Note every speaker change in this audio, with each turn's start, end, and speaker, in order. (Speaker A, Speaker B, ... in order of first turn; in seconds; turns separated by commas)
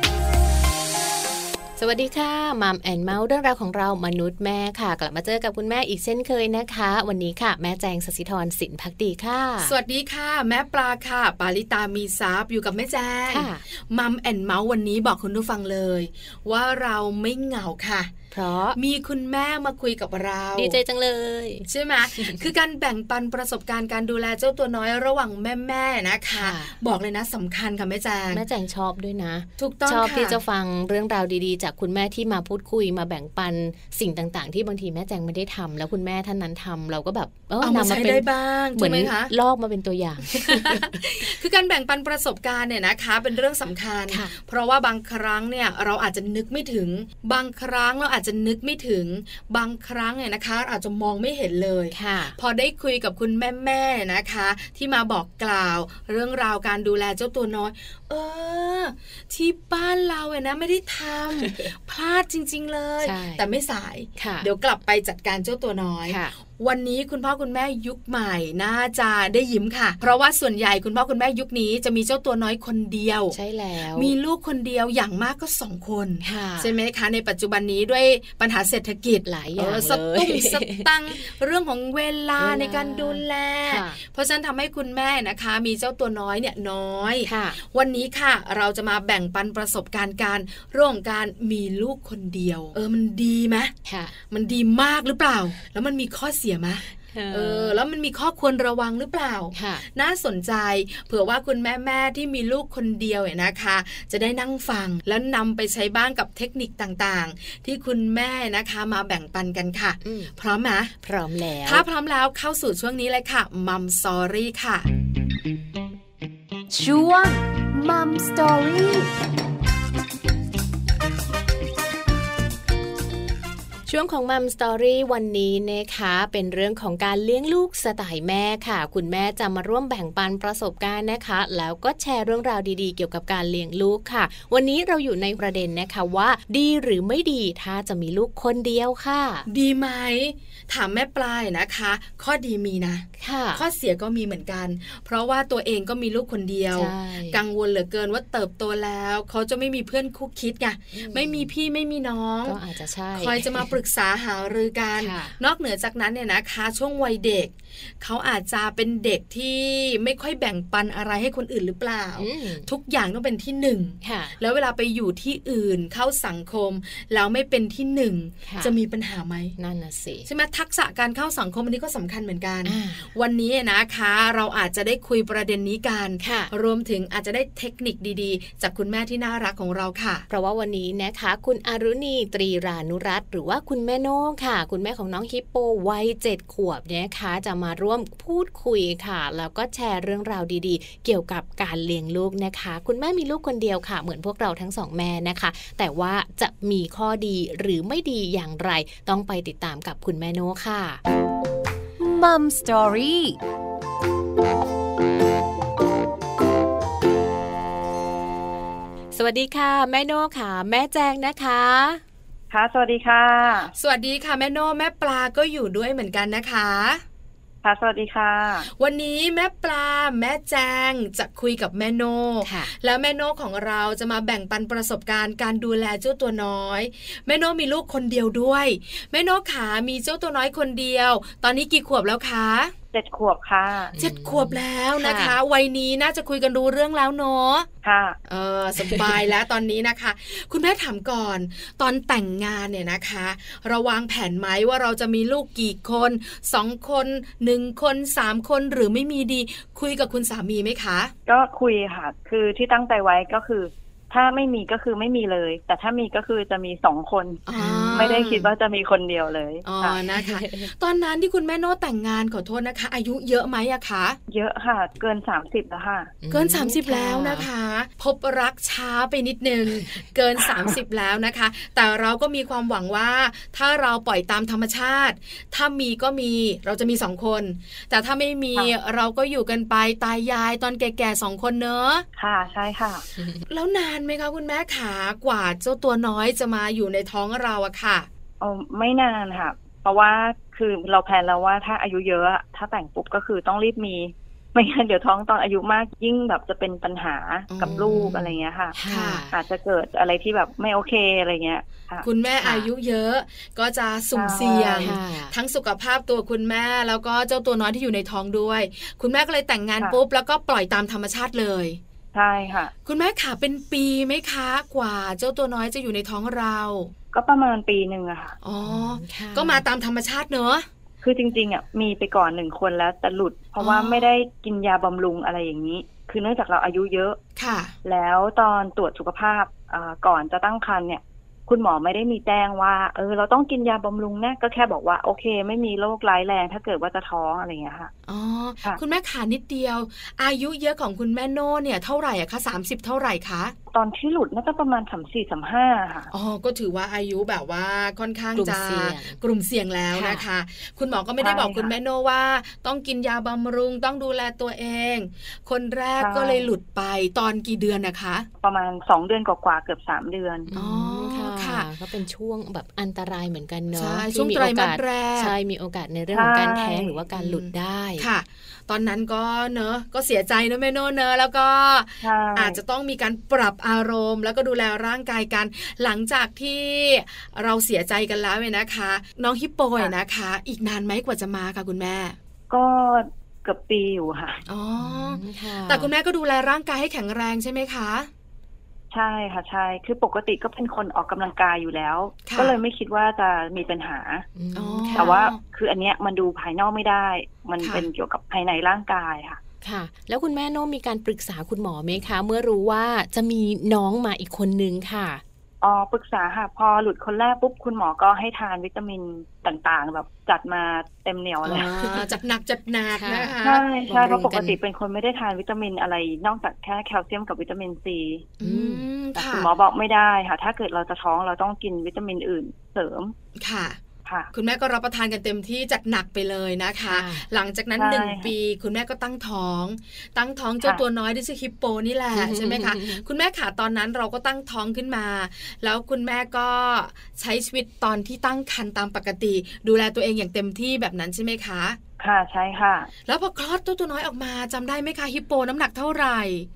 Speaker A: 1.8-9.7, Speaker B: 9.6-18.1, Speaker A: 13.3-13.6, Speaker A: 18.3-18.8, Speaker B: 18.8-20.8, Speaker A: 20.6-22.5, Speaker B: 21.7-28.4, Speaker A: 26.4-26.7, Speaker A: 28.3-41.3, Speaker B: 29.6-30.4, Speaker B: 37.6-39.3, Speaker B: 40.2-73.4, Speaker A: 44.1-44.3, Speaker A: 51.9-52.4, Speaker A: 61.4-61.7, Speaker A: 63.0-63.5, Speaker A: 64.2-64.5, Speaker A: 66.1-66.3, Speaker A: 73.3-74.1, Speaker B: 73.9-93.7, Speaker A: 76.2-76.7, Speaker A: 79.2-81.3, Speaker A: 82.4-84.0, Speaker A: 87.2-87.6, Speaker A: 93.8-94.1, Speaker B: 94.3-110.9, Speaker A: 97.1-97.8, Speaker A: 99.5-99.8, Speaker A: 110.0-110.3, Speaker A: 111.0-111.8, Speaker B: 111.6-114.9, Speaker C: 116.7-119.1, Speaker A: 123.9-139.5, Speaker B: 139.5-152.6, Speaker A: 143.2-143.6, Speaker A: 146.7-147.4, Speaker A: 150.9-151.5, Speaker A: 152.4-153.7, Speaker B: 153.1-169.6, Speaker A: 155.0-155.4, Speaker A: 162.2-162.7, Speaker A: 164.0-164.4, Speaker A: 168.4-168.7, Speaker A: 169.6-170.3, Speaker B: 170.3-180.3, Speaker A: 172.7-173.1, Speaker A: 176.2-176.5, Speaker A: 180.3-201.0, Speaker C: 202.0-203.4, Speaker A: 209.1-212.0, Speaker D: 212.5-213.7, Speaker B: 213.8-217.0, Speaker D: 217.6-218.7, Speaker B: 218.7-232.7, Speaker A: 222.4-222.7, Speaker D: 232.9-233.9, Speaker A: 233.9-235.4, Speaker B: 234.0-237.7, Speaker D: 237.8-238.2, Speaker B: 238.3-251.1, Speaker A: 238.8-239.1, Speaker D: 251.3-257.4, Speaker B: 257.5-258.5, Speaker A: 257.6-258.1, Speaker D: 257.9-260.0, Speaker B: 259.6-264.2, Speaker A: 260.1-260.7, Speaker D: 264.3-266.1, Speaker A: 266.2-267.5, Speaker B: 266.3-282.1, Speaker D: 282.2-283.1, Speaker A: 283.2-283.4, Speaker B: 283.5-288.1, Speaker D: 288.4-298.8, Speaker B: 297.5-298.2, Speaker A: 297.6-299.4, Speaker B: 298.9-299.2, Speaker D: 299.3-302.1, Speaker B: 302.0-311.8, Speaker A: 302.4-302.7, Speaker D: 304.1-305.0, Speaker A: 304.8-305.3, Speaker D: 312.1-312.7, Speaker B: 312.9-316.9, Speaker D: 317.1-318.3, Speaker B: 318.4-320.6, Speaker A: 318.6-319.6, Speaker D: 321.0-327.2, Speaker B: 323.6-324.1, Speaker B: 327.4-327.7, Speaker D: 327.8-337.9, Speaker B: 338.1-343.6, Speaker D: 343.7-346.1, Speaker B: 346.1-358.3, Speaker A: 348.4-349.2, Speaker A: 349.9-350.2, Speaker D: 351.2-351.8, Speaker D: 356.0-356.6, Speaker D: 358.4-360.5, Speaker A: 360.5-368.1, Speaker B: 360.6-361.7, Speaker B: 363.7-365.3, Speaker D: 366.1-367.0, Speaker B: 367.1-382.2, Speaker D: 372.0-372.6, Speaker D: 382.5-384.4, Speaker B: 384.5-388.1, Speaker A: 384.8-385.9, Speaker D: 388.9-394.3, Speaker B: 392.2-392.6, Speaker A: 394.4-395.1, Speaker B: 394.6-395.4, Speaker D: 395.0-399.4, Speaker B: 397.6-397.9, Speaker A: 399.6-405.2, Speaker D: 405.6-411.7, Speaker B: 411.4-413.7, Speaker A: 411.8-412.1, Speaker A: 412.9-413.4, Speaker D: 413.4-418.3, Speaker A: 413.9-414.6, Speaker B: 418.4-419.5, Speaker A: 418.4-418.9, Speaker D: 419.1-423.1, Speaker B: 423.4-423.8, Speaker D: 424.1-424.3, Speaker B: 424.3-441.8, Speaker A: 426.9-427.3, Speaker D: 427.8-428.3, Speaker A: 432.1-433.0, Speaker D: 442.0-442.9, Speaker B: 443.1-446.5